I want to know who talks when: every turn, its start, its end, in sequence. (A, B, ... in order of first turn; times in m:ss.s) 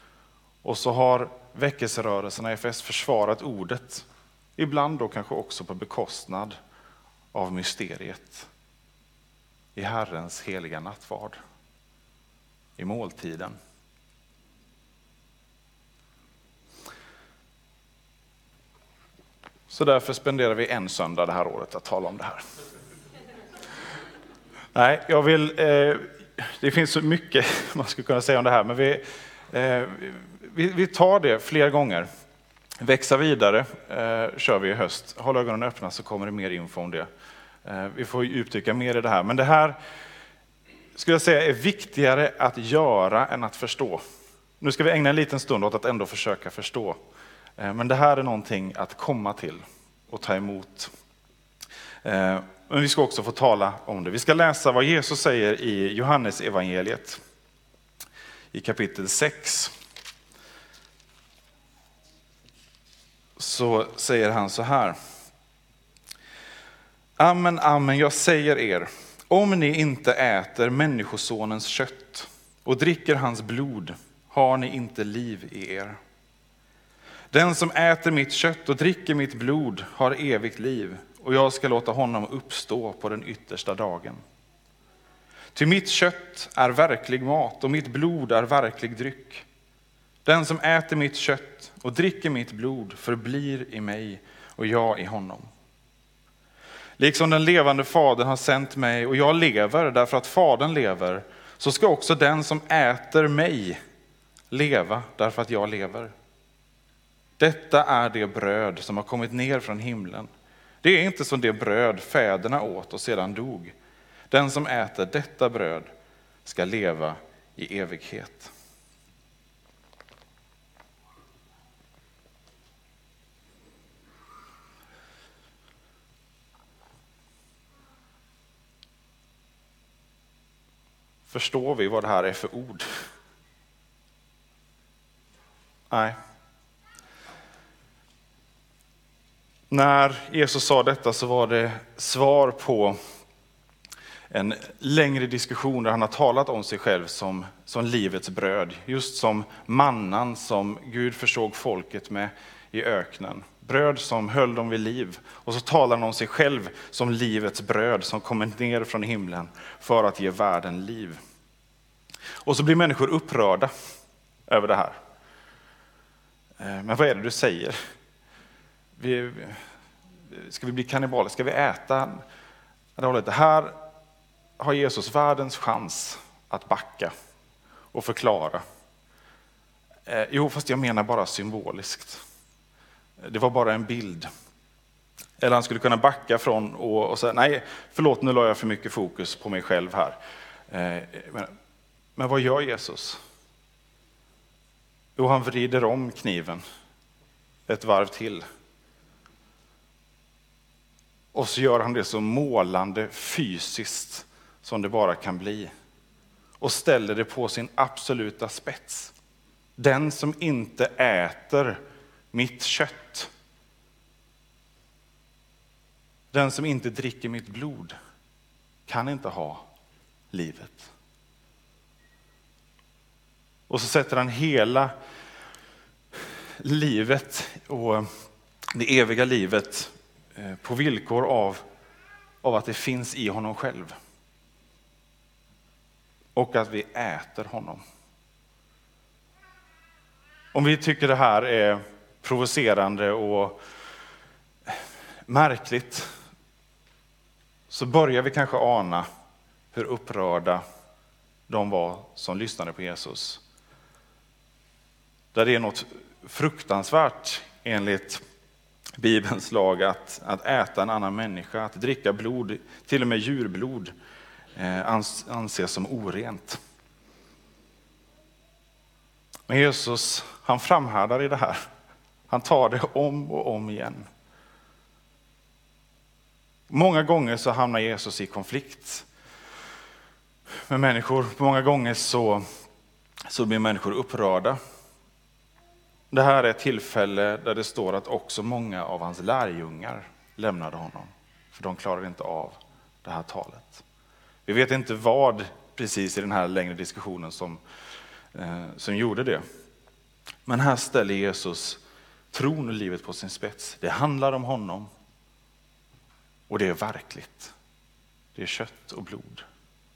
0:00.6-0:04.1 A
0:04.6-0:06.6 A
0:07.3-0:08.5 A
0:09.8-0:11.4 A
0:12.8-0:13.6 A
0:19.7-0:22.4 A
0:24.7-0:32.1 A
0:32.8-0:37.1 A
0:37.6-0:39.8 A
0:40.9-0:44.0 A
0:44.6-0:47.0 A
0:47.6-0:50.9 A
0:52.0-0:57.2 A
0:58.5-0:59.7 A
1:03.4-1:05.0 A
1:07.2-1:16.0 A
1:17.3-1:24.2 A
1:25.5-1:29.4 A
1:30.2-1:35.5 A
1:37.0-1:43.8 A
1:44.5-1:46.1 A
1:47.4-1:50.3 A
1:50.8-1:53.8 A
1:54.3-1:55.9 A
1:56.4-1:58.5 A
2:11.3-2:13.0 A
2:15.9-2:16.2 A
2:19.7-2:23.0 A
2:24.3-2:41.2 A
2:42.4-2:43.7 A
2:44.5-2:45.0 A
2:46.6-2:47.8 A
2:49.0-2:49.6 A
2:50.3-2:52.2 A
2:53.0-2:53.8 A
2:54.6-2:57.1 A
2:57.9-2:58.6 A
3:00.1-3:02.2 A
3:03.2-3:04.3 A
3:05.4-3:10.2 A
3:10.7-3:11.5 A
3:12.2-3:13.2 A
3:15.2-3:16.6 A
3:17.7-3:18.4 A
3:21.3-3:25.7 A
3:26.6-3:29.1 A
3:29.8-3:31.8 A
3:32.3-3:33.3 A
3:36.3-3:38.0 A
3:38.9-3:39.6 A
3:40.3-3:40.9 A
3:43.7-3:44.9 A
3:46.2-3:48.1 A
3:48.7-3:51.6 A
3:52.4-3:54.0 A
3:56.4-3:57.8 A
4:00.5-4:03.6 A
4:04.7-4:06.1 A
4:07.7-4:09.1 A
4:09.7-4:10.6 A
4:11.5-4:13.4 A
4:15.3-4:18.2 A
4:19.0-4:23.9 A
4:24.6-4:26.6 A
4:29.5-4:31.6 A
4:32.3-4:34.1 A
4:36.7-4:39.1 A
4:40.7-4:42.5 A
4:43.3-4:44.6 A
4:46.1-4:53.8 A
4:54.5-4:57.6 A
4:58.3-4:59.4 A
5:00.5-5:04.9 A
5:06.5-5:07.5 A
5:08.4-5:09.4 A